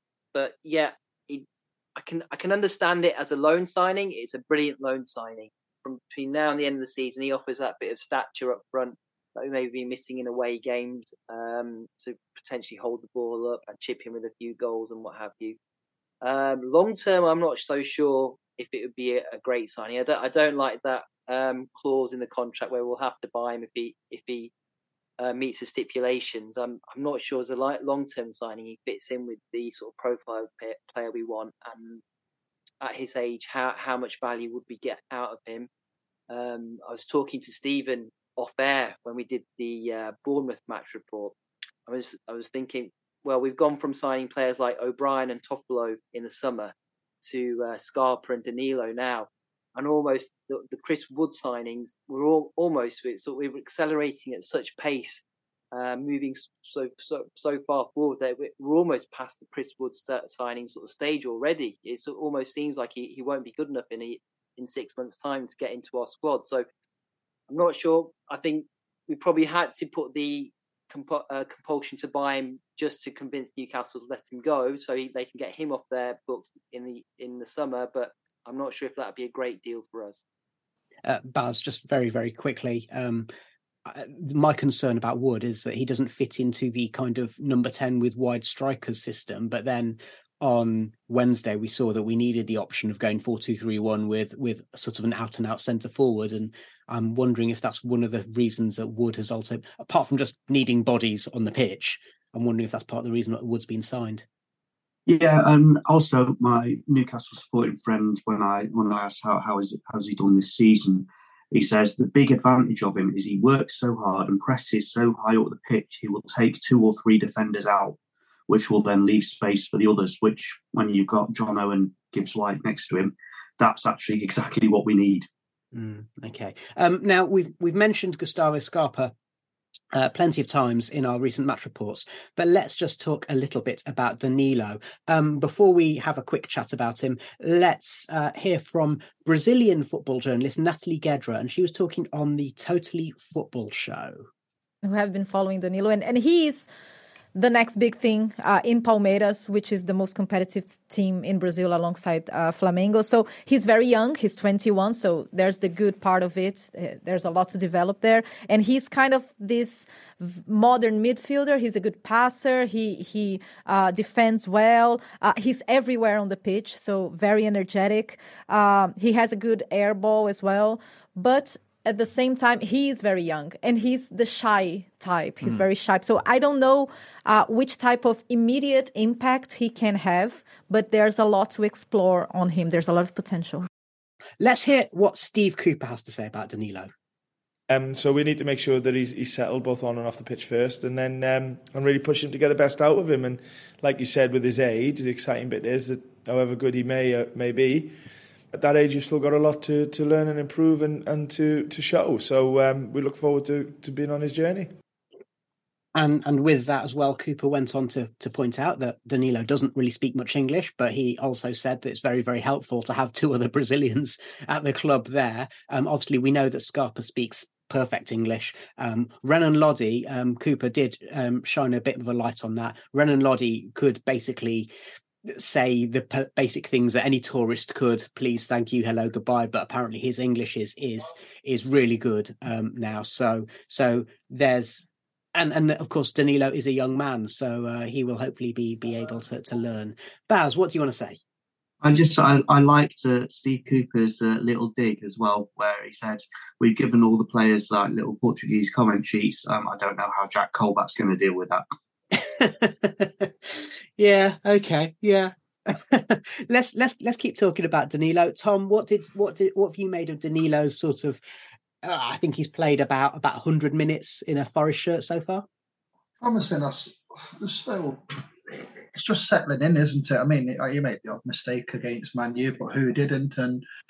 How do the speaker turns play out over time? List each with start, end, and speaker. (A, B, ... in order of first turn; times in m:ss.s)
0:00.3-0:15.6 A
0:16.2-0:24.5 A
0:25.2-0:32.0 A
0:32.8-0:35.7 A
0:36.3-0:41.3 A
0:41.9-1:06.6 A
1:07.5-1:20.2 A
1:21.0-1:23.3 B
1:23.8-1:44.2 B
1:45.1-1:58.0 C
1:58.5-2:05.3 C
2:05.7-2:09.1 B
2:09.9-2:24.3 B
2:24.8-2:26.7 D
2:27.3-3:03.6 D
3:04.4-3:06.9 B
3:07.7-3:18.0 E
3:18.5-3:24.7 E
3:26.0-3:44.7 B
3:45.2-4:01.2 B
4:01.8-4:11.6 C
4:12.1-4:21.2 B
4:21.8-4:25.4 B
4:26.2-4:33.6 F